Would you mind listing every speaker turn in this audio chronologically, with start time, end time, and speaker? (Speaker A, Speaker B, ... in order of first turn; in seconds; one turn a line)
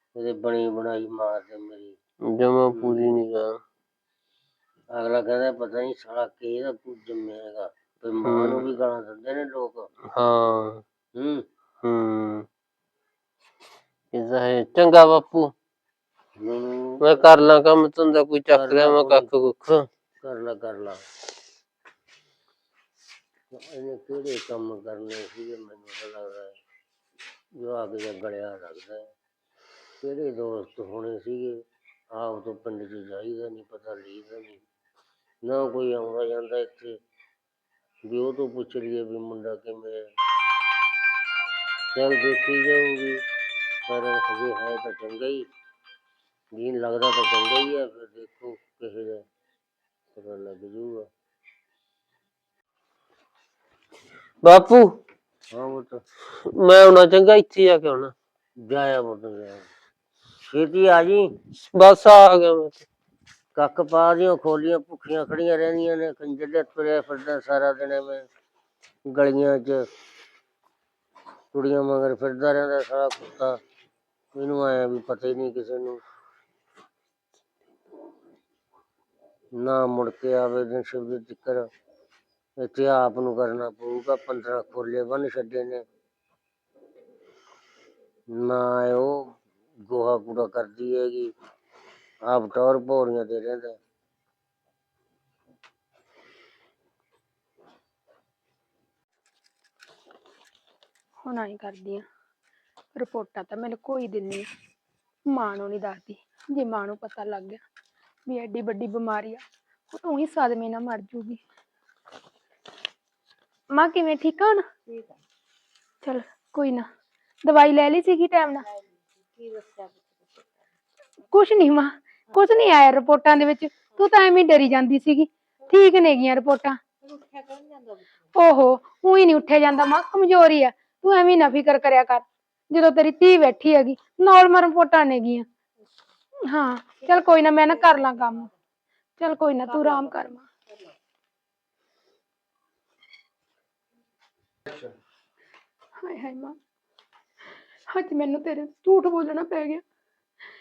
Speaker A: 0.2-2.0
Speaker B: 2.3-3.6
Speaker A: 2.8-3.0
Speaker A: 5.0-9.9
Speaker B: 8.2-8.7
Speaker B: 10.1-10.8
Speaker A: 11.2-11.4
Speaker B: 11.8-12.5
Speaker B: 14.1-15.5
Speaker A: 16.4-17.3
Speaker B: 17.0-19.9
Speaker A: 18.5-19.3
Speaker A: 20.2-21.0
Speaker A: 23.5-26.6
Speaker A: 27.6-29.1
Speaker A: 30.0-31.6
Speaker A: 32.2-34.6
Speaker A: 35.5-36.9
Speaker A: 38.1-40.0
Speaker A: 42.0-43.2
Speaker A: 43.9-45.4
Speaker A: 46.5-49.2
Speaker A: 50.1-51.1
Speaker B: 54.4-54.9
Speaker A: 55.5-56.0
Speaker B: 56.5-58.1
Speaker A: 58.7-59.7
Speaker A: 60.5-61.2
Speaker B: 61.7-62.9
Speaker A: 63.6-68.2
Speaker A: 69.1-69.8
Speaker A: 71.5-73.6
Speaker A: 74.3-76.0
Speaker A: 79.6-81.7
Speaker A: 82.6-85.8
Speaker A: 88.4-89.2
Speaker A: 89.9-91.3
Speaker A: 92.3-93.8
Speaker C: 101.2-102.0
Speaker C: 103.0-104.5
Speaker C: 105.3-107.6
Speaker C: 108.3-111.4
Speaker C: 113.7-114.6
Speaker C: 116.0-116.9
Speaker C: 117.4-118.7
Speaker D: 119.3-120.5
Speaker C: 121.3-126.8
Speaker D: 127.1-128.0
Speaker C: 128.3-135.5
Speaker C: 136.5-138.5
Speaker C: 139.2-140.5
Speaker C: 146.0-146.6
Speaker C: 147.9-149.8